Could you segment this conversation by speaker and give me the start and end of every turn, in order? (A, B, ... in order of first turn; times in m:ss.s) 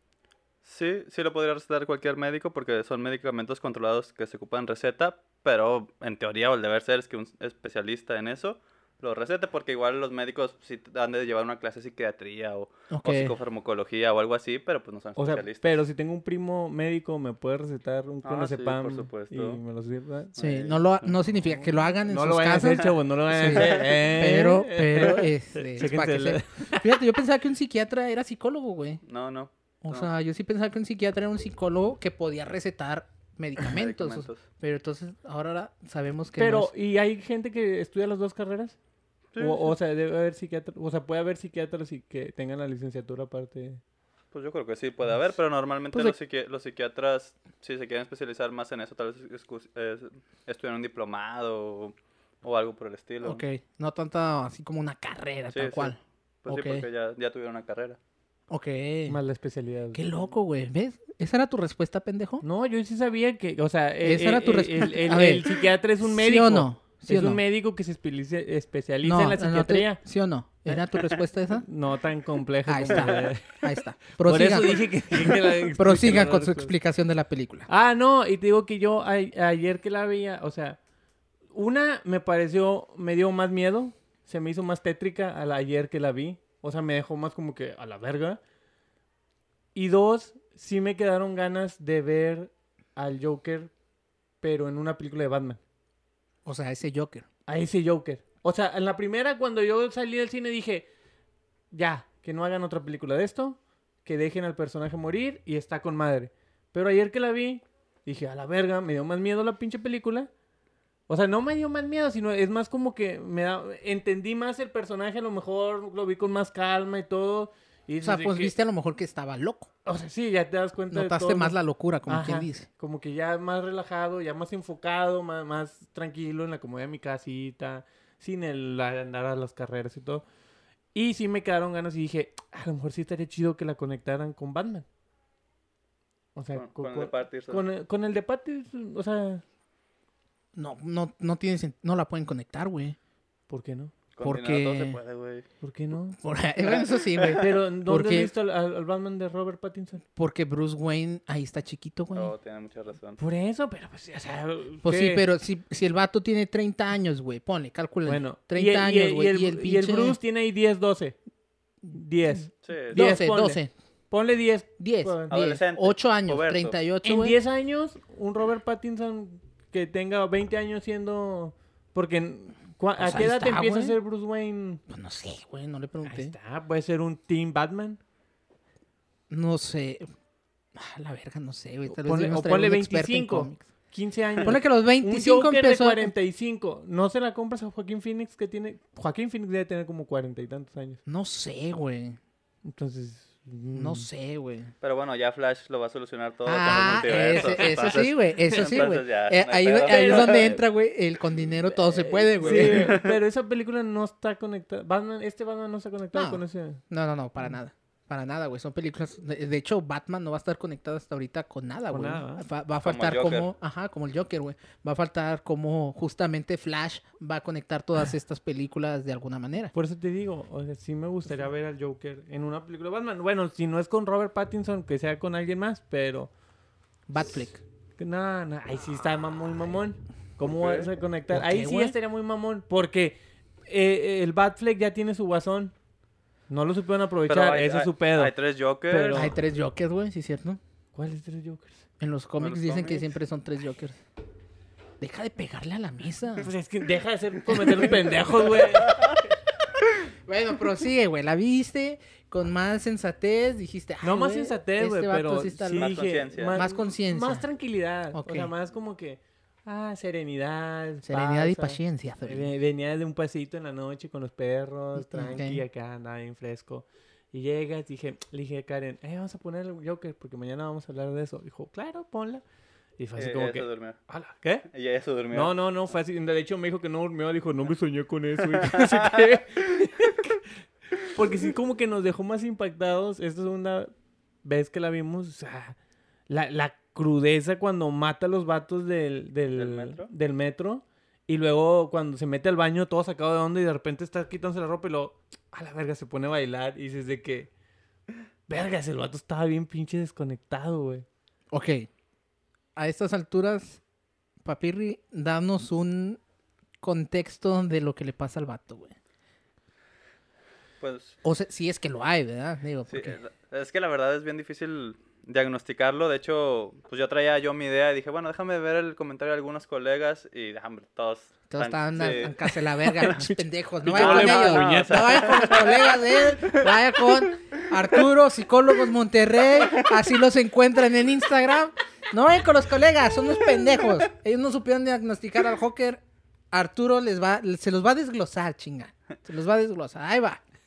0:00.6-0:15.7 A
0:12.9-0:13.3 B
0:15.2-0:20.3 C
0:18.2-0:19.6 A
0:20.3-0:21.1 A
0:20.4-0:29.0 B
0:22.0-0:26.9 C
0:23.5-0:23.8 A
0:29.0-0:30.1 A
0:29.8-0:36.7 B
0:33.6-0:34.4 A
0:36.4-0:38.8 C
0:39.3-0:39.7 A
0:39.4-0:43.8 C
0:44.3-0:53.4 A
0:53.2-0:56.8 B
0:55.5-0:58.0 A
0:58.5-0:59.2 B
0:59.1-1:00.0 C
0:59.9-1:02.4 B
1:02.4-1:10.0 C
1:04.0-1:05.5 B
1:06.0-1:07.4 B
1:09.0-1:11.6 B
1:11.5-1:13.6 C
1:12.6-1:17.7 B
1:14.2-1:16.7 C
1:17.7-1:20.8 C
1:21.5-1:28.4 C
1:29.7-1:33.7 C
1:34.4-1:35.6 C
1:36.4-1:37.2 B
1:37.5-1:40.9 C
1:41.7-1:50.3 C
1:51.1-1:58.5 C
1:58.0-1:59.7 B
1:59.8-2:01.6 C
2:00.9-2:02.7 B
2:02.1-2:10.2 C
2:10.9-2:14.9 C
2:16.3-2:19.4 C
2:16.5-2:17.6 A
2:20.5-2:23.0 B
2:23.5-2:23.9 C
2:24.1-2:25.4 A
2:24.2-2:25.0 B
2:25.6-2:26.2 C
2:26.2-2:28.3 B
2:26.8-2:27.4 A
2:27.3-2:30.0 C
2:30.1-2:32.3 B
2:32.1-2:33.2 A
2:33.2-2:35.2 C
2:34.8-2:40.2 B
2:38.0-2:41.2 C
2:41.9-2:45.3 C
2:42.6-2:43.1 A
2:42.9-2:43.7 B
2:44.8-2:47.4 B
2:45.3-2:46.8 A
2:47.0-2:54.8 C
2:53.0-2:54.0 B
2:54.9-2:56.3 B
2:56.0-2:58.0 C
2:59.3-3:00.1 B
3:00.7-3:03.7 B
3:01.9-3:11.0 C
3:04.4-3:06.1 B
3:11.1-3:12.2 B
3:12.6-3:14.1 C
3:13.7-3:14.7 B
3:14.8-3:20.6 A
3:16.4-3:23.0 B
3:16.7-3:18.7 C
3:19.9-3:20.4 C
3:21.9-3:26.8 C
3:22.4-3:23.1 A
3:26.1-3:39.7 B
3:31.9-3:32.4 C
3:32.8-3:33.5 A
3:39.7-3:46.3 C
3:47.1-3:47.6 B
3:48.0-3:55.7 C
3:50.6-3:50.9 A
3:51.3-3:51.9 B
3:56.5-3:58.3 C
3:57.3-3:59.3 A
3:58.9-3:59.4 C
3:59.1-4:00.6 B
4:00.9-4:01.8 C
4:02.0-4:04.0 B
4:02.4-4:03.1 A
4:05.0-4:06.5 B
4:06.4-4:09.0 C
4:07.5-4:08.0 B
4:10.2-4:16.0 B
4:14.0-4:32.4 C
4:15.8-4:16.6 A
4:16.5-4:17.4 B
4:18.1-4:18.5 B
4:21.0-4:22.5 B
4:25.0-4:25.6 B
4:33.0-4:34.7 C
4:33.2-4:34.0 A
4:34.7-4:35.5 A
4:35.3-4:43.9 C
4:38.7-4:39.3 A
4:44.4-4:45.8 C
4:46.3-4:57.5 C
4:49.6-4:50.1 A
4:58.5-5:01.0 C
5:01.5-5:01.9 B
5:02.8-5:03.8 B
5:04.4-5:06.2 B
5:06.8-5:09.0 B
5:10.8-5:11.2 A
5:11.2-5:13.2 B
5:12.9-5:23.1 A
5:21.5-5:40.4 B
5:22.9-5:25.2 C
5:23.8-5:26.7 A